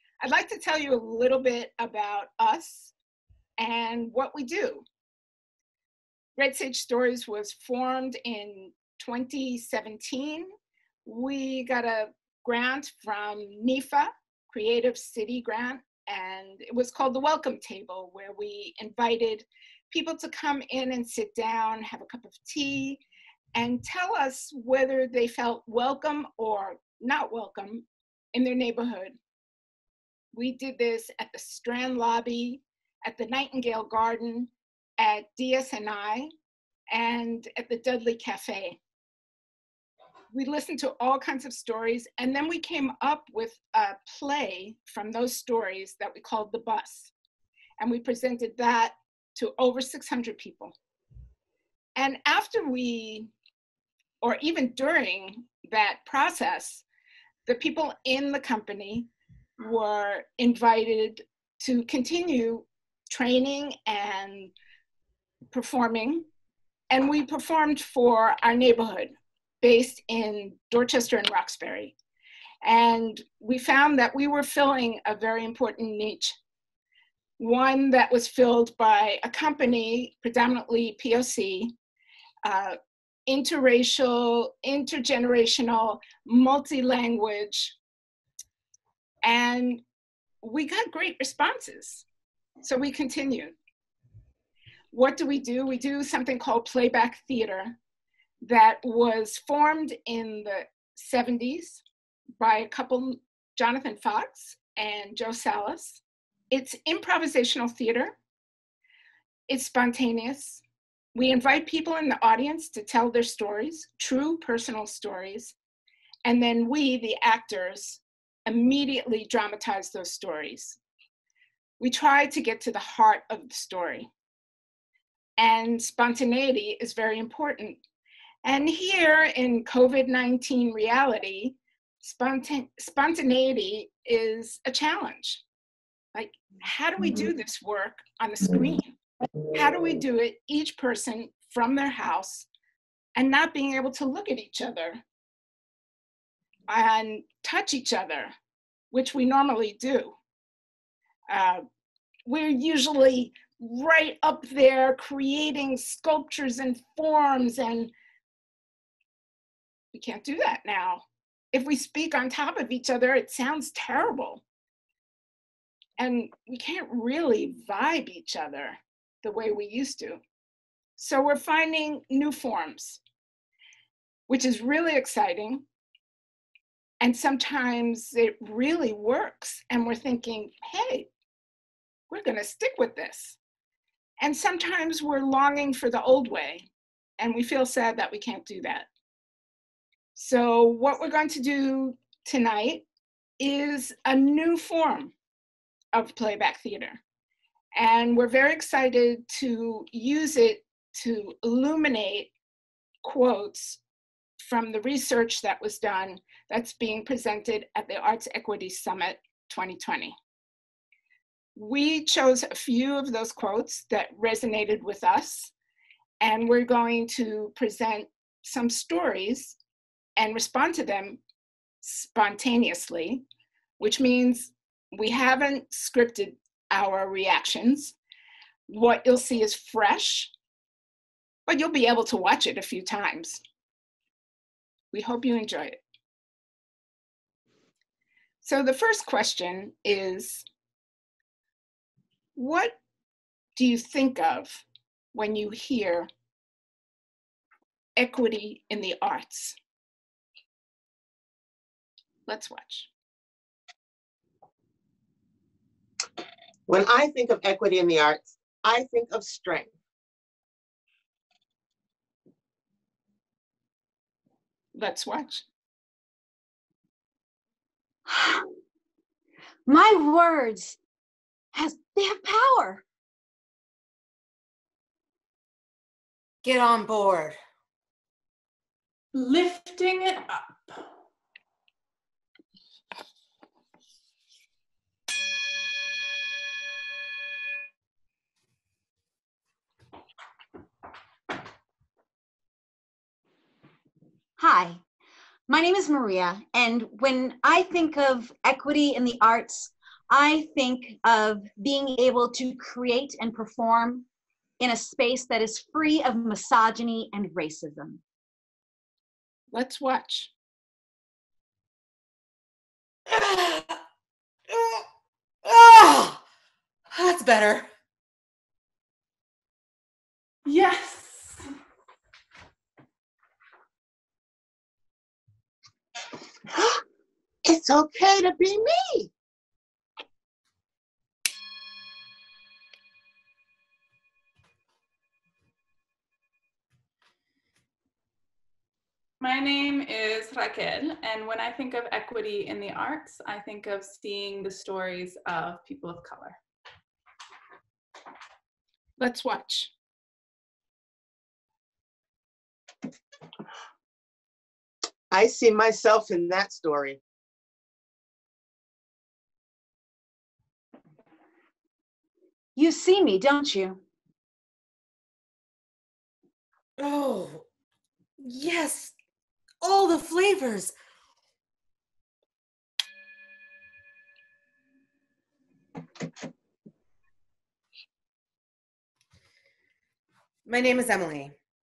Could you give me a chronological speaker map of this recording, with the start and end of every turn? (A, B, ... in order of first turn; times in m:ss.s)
0:00.2-0:02.9 A
0:03.6-0:04.8 A
0:06.4-0:10.5 A
0:11.0-0:23.0 A
0:23.6-0:29.2 A
0:30.3-0:36.3 A
0:36.9-0:38.8 A
0:40.3-0:47.1 A
0:47.8-0:50.7 A
0:52.0-0:53.3 A
0:54.2-0:56.8 A
0:57.4-1:04.5 A
1:05.5-1:06.3 A
1:06.9-1:11.9 A
1:12.6-1:16.4 A
1:17.4-1:21.8 A
1:22.4-1:27.8 A
1:29.2-1:29.8 A
1:30.4-1:32.0 A
1:32.6-1:33.6 A
1:34.9-1:37.8 A
1:38.4-1:41.8 A
1:42.4-1:48.2 A
1:49.5-1:50.6 A
1:51.2-1:55.6 A
1:56.2-2:00.8 A
2:01.8-2:04.1 A
2:05.4-2:07.8 A
2:08.4-2:15.4 A
2:16.1-2:19.0 A
2:19.5-2:22.5 A
2:23.2-2:25.0 A
2:26.7-2:28.3 A
2:28.9-2:30.2 A
2:31.3-2:31.6 A
2:32.2-2:37.9 A
2:39.9-2:44.4 A
2:46.0-2:50.2 A
2:51.0-2:53.0 A
2:54.3-2:55.6 A
2:57.0-3:01.1 A
3:02.1-3:03.4 A
3:04.2-3:08.9 A
3:10.2-3:12.8 A
3:13.4-3:15.1 A
3:15.9-3:17.0 A
3:17.8-3:22.3 A
3:23.0-3:23.8 A
3:24.4-3:30.2 A
3:31.6-3:35.5 A
3:36.2-3:39.6 A
3:40.2-3:41.2 A
3:41.8-3:43.2 A
3:43.8-3:48.0 A
3:48.7-3:50.3 A
3:51.5-3:53.4 A
3:54.9-3:55.8 A
3:58.4-4:00.4 A
4:02.4-4:02.8 A
4:03.6-4:06.1 A
4:08.0-4:09.6 A
4:12.3-4:12.9 A
4:16.7-4:19.7 B
4:24.8-4:25.4 A
4:28.1-4:28.4 C
4:29.7-4:30.8 C
4:31.5-4:32.8 C
4:36.4-4:37.4 D
4:39.1-4:40.8 E
4:54.4-4:54.8 C
4:55.5-5:04.1 C
5:04.6-5:08.0 C
5:09.5-5:10.3 A
5:13.1-5:13.8 D
5:14.5-5:14.8 D
5:15.4-5:16.2 D
5:16.9-5:17.7 D
5:20.4-5:21.4 E
5:26.5-5:26.8 B
5:27.4-5:29.1 B
5:39.2-5:46.4 E
5:49.0-5:49.7 A
5:55.1-5:57.0 B
6:02.6-6:03.8 C
6:06.8-6:07.4 D
6:08.2-6:08.9 D
6:09.6-6:10.7 D
6:20.4-6:21.4 D